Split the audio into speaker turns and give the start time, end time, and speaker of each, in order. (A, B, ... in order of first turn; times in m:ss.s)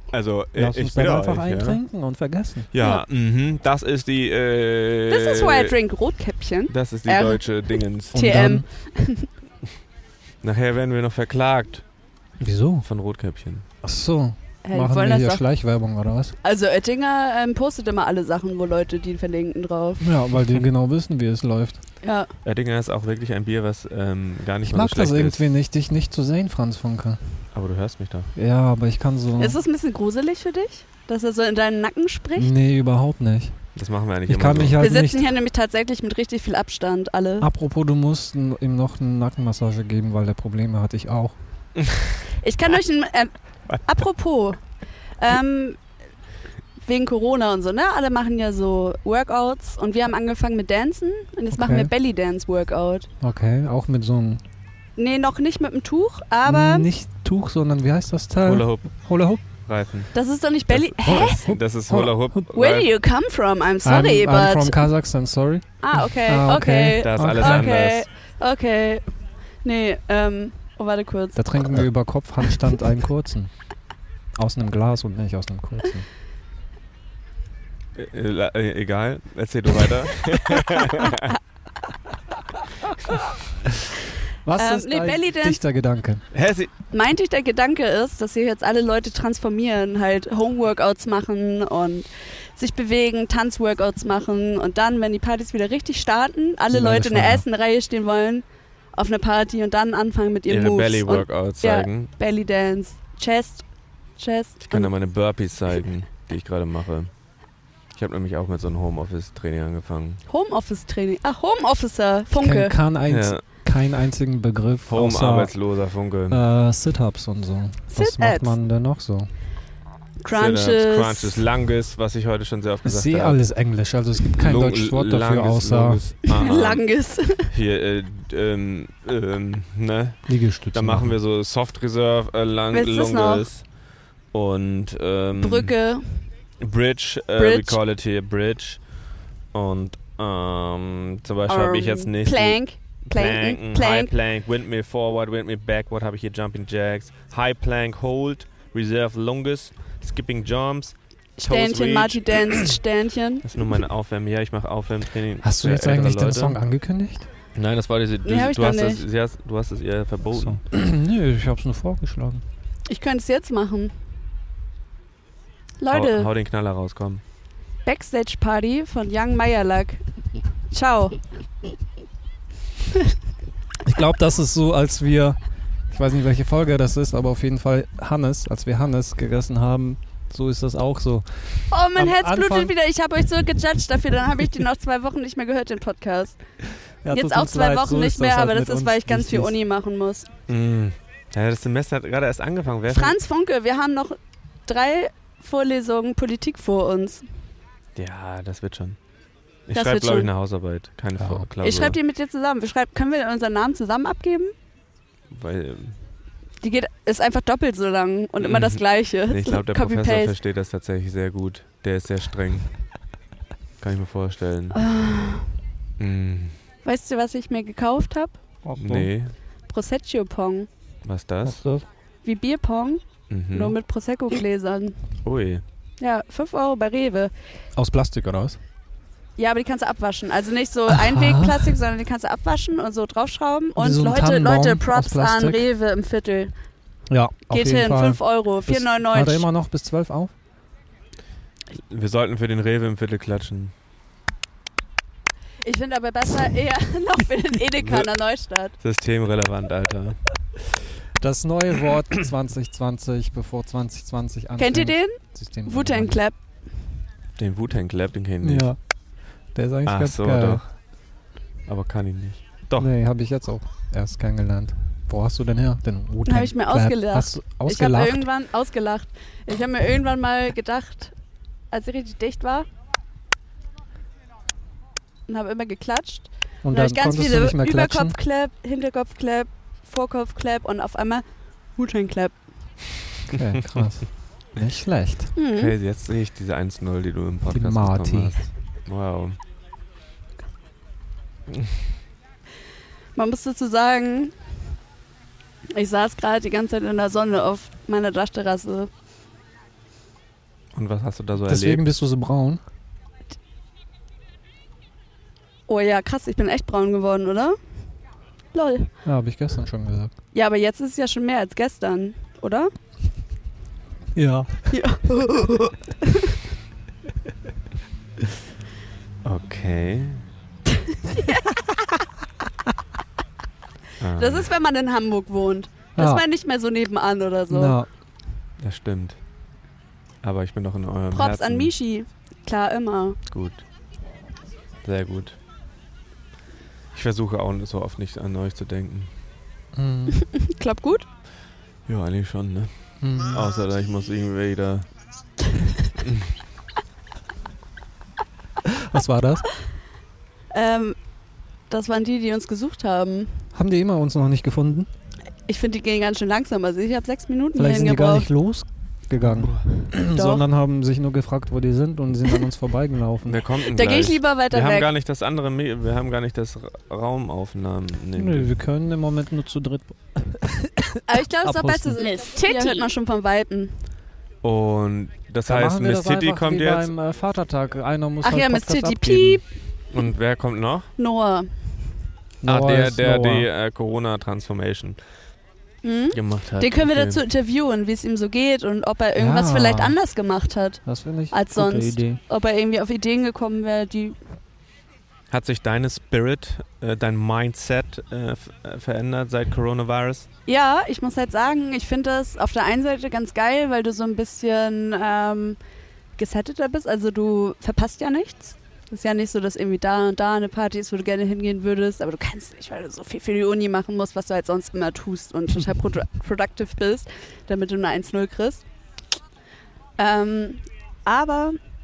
0:00.1-0:01.8 A
0:00.6-0:02.7 B
0:02.7-0:05.7 A
0:02.8-0:03.0 C
0:05.1-0:09.3 C
0:06.7-0:08.2 A
0:08.1-0:08.6 B
0:10.4-0:11.8 A
0:12.4-0:12.8 B
0:12.8-0:13.6 A
0:13.8-0:16.3 B
0:14.6-0:15.4 C
0:16.4-0:20.1 C
0:20.0-0:21.8 B
0:22.0-0:22.3 C
0:22.4-0:25.4 A
0:24.7-0:27.2 B
0:27.5-0:28.3 A
0:28.4-0:29.6 B
0:29.4-0:32.5 C
0:32.4-0:33.7 B
0:33.7-0:34.8 A
0:34.3-0:35.3 B
0:34.8-0:37.5 C
0:37.4-0:41.4 B
0:41.8-0:42.1 A
0:42.4-0:44.6 C
0:45.2-0:45.8 C
0:46.8-0:53.1 C
0:51.5-0:51.9 B
0:53.2-0:54.4 B
0:55.0-0:56.9 C
0:56.4-0:59.4 B
0:58.4-1:00.1 A
1:00.1-1:01.4 C
1:00.7-1:02.9 A
1:01.0-1:02.5 B
1:02.5-1:04.9 C
1:03.8-1:07.7 B
1:05.8-1:09.1 C
1:07.0-1:08.1 A
1:09.6-1:11.5 C
1:11.4-1:13.5 B
1:14.3-1:16.1 B
1:18.0-1:21.3 A
1:24.4-1:26.2 B
1:24.6-1:25.6 C
1:26.3-1:26.7 A
1:26.9-1:43.6 C
1:36.7-1:37.4 B
1:40.5-1:42.1 A
1:44.2-1:44.9 C
1:44.6-1:47.1 A
1:47.9-1:50.2 A
1:50.3-1:52.8 C
1:52.3-1:55.5 B
1:53.1-1:53.4 A
1:54.9-1:56.4 A
1:56.3-1:59.3 B
1:57.9-1:58.5 C
2:00.2-2:01.4 C
2:00.3-2:03.5 A
2:02.8-2:06.1 B
2:04.3-2:13.8 A
2:06.4-2:07.5 C
2:10.3-2:11.2 B
2:12.7-2:13.4 C
2:14.3-2:15.7 A
2:15.4-2:16.3 C
2:16.6-2:32.7 A
2:17.4-2:17.8 C
2:21.5-2:24.1 C
2:31.4-2:33.5 C
2:33.4-2:36.6 A
2:35.4-2:37.3 B
2:37.5-2:40.6 A
2:38.2-2:39.0 C
2:40.3-2:42.4 B
2:42.9-2:43.9 C
2:45.8-2:46.3 C
2:45.9-2:47.2 A
2:47.8-2:50.0 C
2:50.7-2:51.2 C
2:53.8-3:02.7 B
3:01.7-3:06.4 C
3:07.0-3:09.6 B
3:07.1-3:10.3 C
3:10.5-3:13.2 A
3:12.9-3:17.2 C
3:18.0-3:19.0 A
3:19.7-3:22.0 A
3:19.7-3:20.3 C
3:21.2-3:21.4 B
3:21.6-3:24.5 C
3:25.3-3:26.0 A
3:26.6-3:30.3 C
3:28.4-3:32.7 A
3:33.8-3:34.8 A
3:34.7-3:35.5 C
3:36.0-3:36.6 A
3:36.8-3:38.4 C
3:38.6-3:39.1 B
3:38.8-3:39.3 A
3:39.7-3:40.7 C
3:41.0-3:41.6 A
3:41.4-3:41.9 B
3:42.2-3:45.0 C
3:43.3-3:43.8 A
3:45.2-3:45.6 A
3:46.0-3:47.3 C
3:47.8-3:48.6 B
3:49.4-3:56.5 C
3:50.9-3:51.8 B
3:53.8-3:55.6 B
3:57.1-4:00.3 B
3:57.5-3:59.5 C
4:01.8-4:03.7 A
4:05.6-4:08.7 C
4:07.8-4:08.1 A
4:08.8-4:10.2 A
4:11.2-4:16.2 B
4:14.6-4:16.4 C
4:17.4-4:18.7 A
4:18.4-4:18.8 B
4:19.5-4:20.6 B
4:19.8-4:20.8 A
4:21.7-4:22.9 A
4:22.8-4:28.2 B
4:26.2-4:31.1 C
4:31.7-4:32.7 C
4:35.3-4:41.2 C
4:36.6-4:38.2 B
4:41.8-4:42.4 C
4:43.3-4:45.3 B
4:45.4-4:45.7 C
4:45.5-4:49.4 A
4:47.5-4:48.4 B
4:53.2-4:54.3 C
4:55.7-4:58.9 C
5:00.7-5:01.9 A
5:01.4-5:02.6 B
5:05.7-5:07.6 C
5:08.5-5:08.9 C
5:09.0-5:10.1 B
5:10.3-5:12.7 C
5:14.1-5:14.8 B
5:14.7-5:16.4 C
5:19.2-5:20.2 A
5:24.0-5:24.5 A
5:24.2-5:27.8 C
5:26.0-5:26.2 B
5:27.5-5:27.9 B
5:28.6-5:29.2 A
5:30.2-5:31.7 A
5:31.1-5:33.2 C
5:33.3-5:33.6 A
5:34.8-5:35.4 A
5:36.9-5:39.1 A
5:39.7-5:40.2 B
5:40.2-5:41.0 C
5:41.9-5:44.9 A
5:43.0-5:43.4 B
5:46.0-5:46.3 A
5:48.6-5:49.4 B
5:50.5-5:51.0 C
5:51.7-5:53.4 C
5:53.5-5:54.9 B
5:55.5-5:58.3 C
5:57.5-6:03.4 B
5:59.2-5:59.7 A
6:00.0-6:00.4 C
6:03.2-6:08.5 A
6:03.7-6:04.9 C
6:08.1-6:12.2 B
6:11.1-6:13.7 C
6:14.4-6:16.9 A
6:15.4-6:19.4 B
6:18.2-6:19.4 C
6:19.9-6:20.9 A
6:21.0-6:21.8 C
6:22.4-6:23.5 B
6:22.4-6:25.0 A
6:25.8-6:34.2 C
6:26.1-6:27.2 A
6:29.2-6:30.0 B
6:30.8-6:32.2 B
6:35.3-6:40.3 A
6:40.5-6:45.6 C
6:46.2-6:58.6 C
7:00.0-7:01.6 C